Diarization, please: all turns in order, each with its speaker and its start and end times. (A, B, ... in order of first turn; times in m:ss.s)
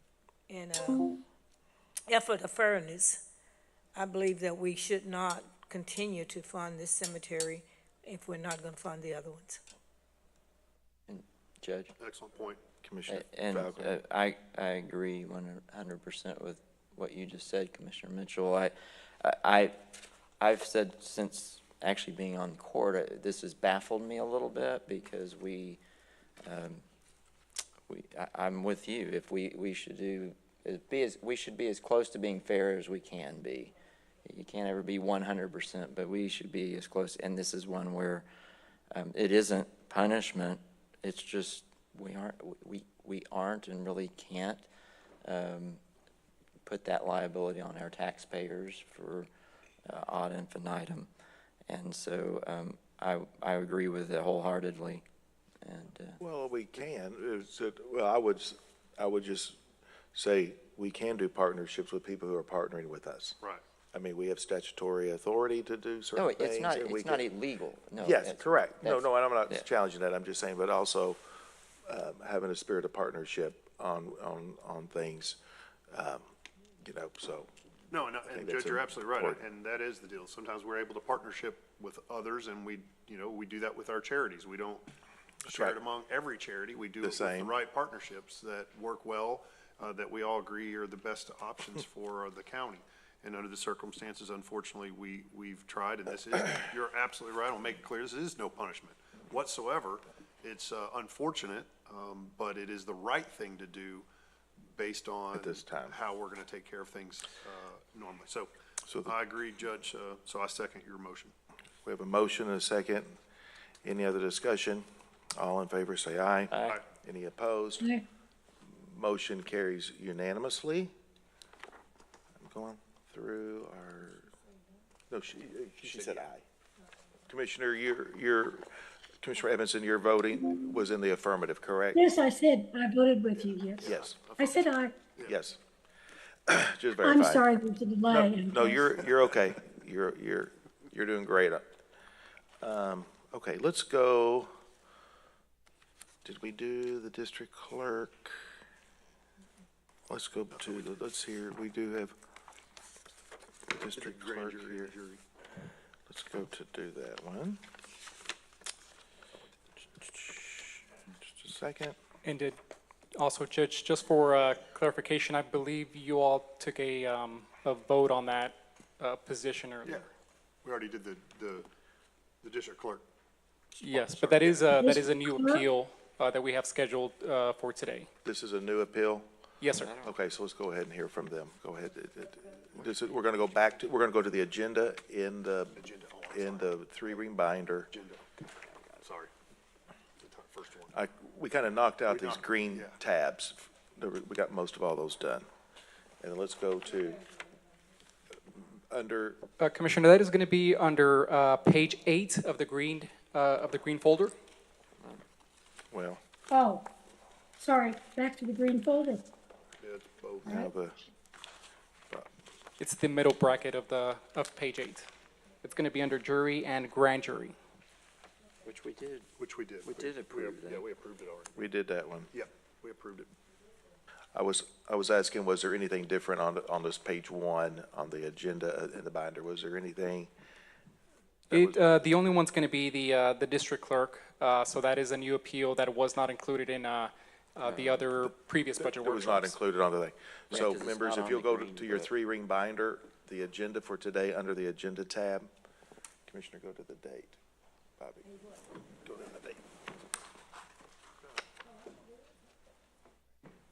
0:00.5-0:01.2 A
0:02.1-0:03.2 A
0:04.0-0:09.6 A
0:11.1-0:11.9 B
0:12.0-0:12.6 C
0:12.8-0:13.9 D
0:13.1-0:19.8 B
0:20.4-0:25.8 B
0:26.4-0:26.8 B
0:27.9-0:33.7 B
0:34.2-0:38.3 B
0:38.9-0:44.7 B
0:45.2-0:45.8 B
0:46.6-0:49.3 B
0:49.8-0:51.1 B
0:51.7-0:55.0 B
0:55.6-0:56.2 B
0:56.2-0:59.6 D
1:00.1-1:03.4 D
1:03.9-1:07.2 D
1:06.2-1:09.7 B
1:08.0-1:11.2 D
1:11.9-1:15.4 D
1:15.9-1:16.2 D
1:16.8-1:17.5 D
1:17.9-1:24.9 C
1:18.2-1:19.4 D
1:25.4-1:44.1 C
1:25.5-1:25.8 D
1:27.0-1:27.5 D
1:44.7-1:48.5 C
1:45.3-1:46.0 D
1:48.9-1:49.1 D
1:49.0-1:51.3 C
1:51.8-1:53.2 D
1:53.8-1:57.9 D
1:56.5-1:56.8 B
1:57.8-1:58.0 E
1:58.7-2:00.9 D
2:02.4-2:04.3 D
2:05.1-2:06.4 D
2:05.8-2:06.3 C
2:07.3-2:08.7 D
2:09.2-2:12.0 D
2:11.9-2:15.0 E
2:13.4-2:15.4 C
2:13.8-2:14.2 D
2:15.2-2:15.6 D
2:16.5-2:17.5 D
2:17.0-2:18.9 E
2:18.1-2:21.6 D
2:22.6-2:24.5 D
2:26.2-2:28.4 D
2:30.1-2:32.2 D
2:33.7-2:34.9 D
2:33.9-2:35.2 C
2:36.1-2:37.6 D
2:40.0-2:42.0 D
2:42.2-2:42.6 F
2:43.2-2:50.0 F
2:50.6-2:51.7 C
2:52.4-2:53.0 C
2:53.8-2:54.8 C
2:53.8-2:58.1 F
2:54.7-2:55.7 E
2:58.2-2:59.3 D
2:59.6-2:59.9 F
2:59.8-3:00.2 B
3:00.0-3:05.8 D
3:05.7-3:06.7 C
3:06.3-3:07.9 D
3:07.9-3:08.5 C
3:09.0-3:09.3 C
3:10.2-3:11.0 C
3:10.9-3:15.5 D
3:12.1-3:13.0 C
3:16.2-3:17.2 D
3:18.5-3:19.4 D
3:19.6-3:24.3 F
3:25.9-3:26.2 D
3:26.5-3:26.9 E
3:27.6-3:29.3 E
3:29.8-3:30.6 C
3:30.4-3:30.7 E
3:30.4-3:31.0 D
3:32.8-3:35.1 F
3:35.6-3:37.6 F
3:38.6-3:39.3 B
3:39.4-3:41.7 C
3:39.8-3:40.8 B
3:41.6-3:42.3 D
3:42.3-3:43.3 C
3:44.3-3:50.3 D
3:51.5-3:52.2 D
3:51.5-3:59.5 F
3:57.6-3:58.0 B
3:58.8-4:05.5 D
4:00.5-4:02.1 B
4:06.3-4:07.4 D
4:08.0-4:08.3 D
4:09.0-4:09.6 D